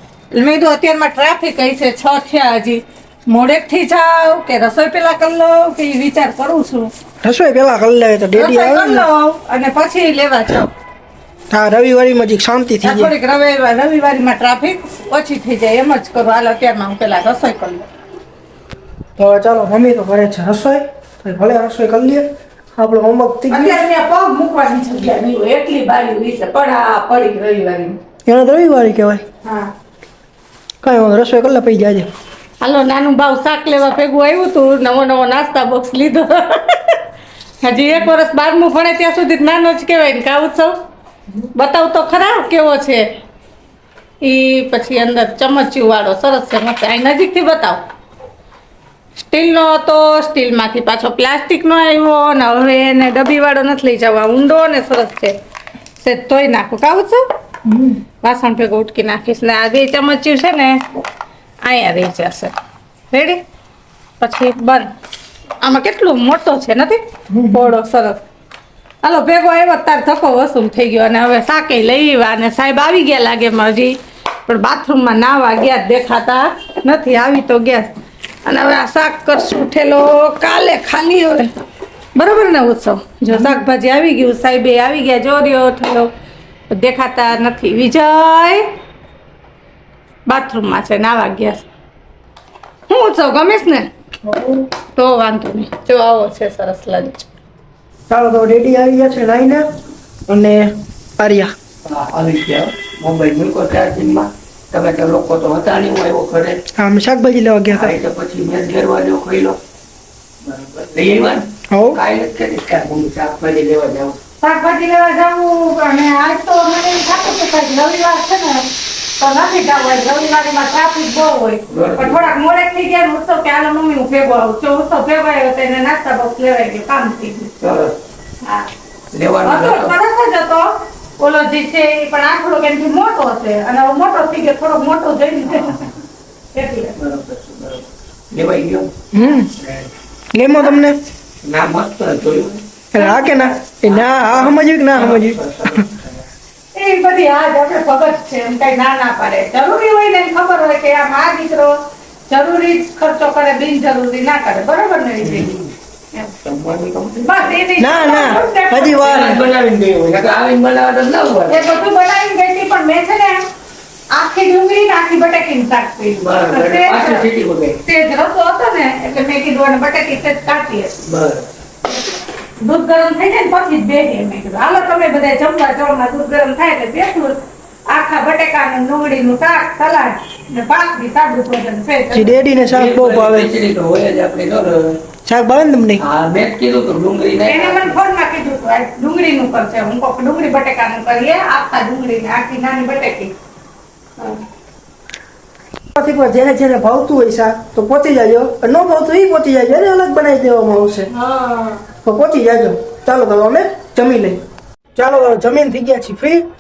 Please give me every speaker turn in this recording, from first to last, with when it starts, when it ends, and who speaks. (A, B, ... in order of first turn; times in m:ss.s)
0:00.3-0:06.9 A
0:07.2-0:09.1 B
0:08.3-0:10.7 A
0:11.5-0:13.1 B
0:12.8-0:17.9 A
0:19.2-0:22.3 B
0:22.8-0:23.9 B
0:23.5-0:28.0 A
0:28.3-0:29.2 B
0:29.4-0:29.7 A
0:30.8-0:32.1 B
0:32.6-0:37.0 A
0:37.6-0:40.8 A
0:41.6-0:43.0 A
0:44.2-0:47.8 A
0:49.2-0:55.4 A
0:56.0-0:57.2 A
0:57.7-0:58.0 B
0:58.2-1:00.8 A
1:01.6-1:02.6 A
1:03.1-1:03.4 A
1:04.2-1:04.9 A
1:05.6-1:08.2 A
1:07.3-1:07.7 B
1:09.0-1:17.9 A
1:18.4-1:21.5 A
1:22.2-1:26.1 A
1:23.3-1:23.6 B
1:26.7-1:28.6 A
1:30.3-1:31.6 A
1:32.9-1:33.9 A
1:34.2-1:34.7 B
1:35.0-1:37.3 A
1:38.1-1:39.6 B
1:40.3-1:41.5 B
1:41.8-1:46.6 C
1:46.8-1:48.0 B
1:47.7-1:49.6 C
1:50.4-1:54.2 C
1:51.7-1:52.0 B
1:54.4-2:07.7 A
2:01.7-2:02.3 C
2:07.6-2:08.0 C
2:08.4-2:08.7 A
2:09.1-2:10.0 C
2:09.4-2:16.0 A
2:16.5-2:17.0 A
2:17.0-2:18.9 C
2:19.1-2:19.5 B
2:19.6-2:19.9 C
2:20.3-2:21.0 B
2:21.4-2:22.7 C
2:22.9-2:25.8 B
2:23.0-2:23.6 A
2:23.8-2:26.2 C
2:26.7-2:31.8 A
2:32.3-2:35.5 A
2:35.2-2:35.7 C
2:36.4-2:37.6 C
2:37.2-2:39.3 A
2:37.8-2:39.4 B
2:38.9-2:41.7 C
2:41.5-2:43.4 A
2:44.1-2:47.2 A
2:46.2-2:47.8 C
2:47.8-2:51.0 A
2:51.0-2:51.5 C
2:52.6-3:02.3 A
3:02.1-3:03.5 B
3:02.7-3:05.0 C
3:05.3-3:06.0 B
3:06.0-3:08.0 C
3:07.4-3:13.3 A
3:16.0-3:21.1 B
3:21.1-3:21.8 A
3:22.0-3:24.4 B
3:25.0-3:26.4 B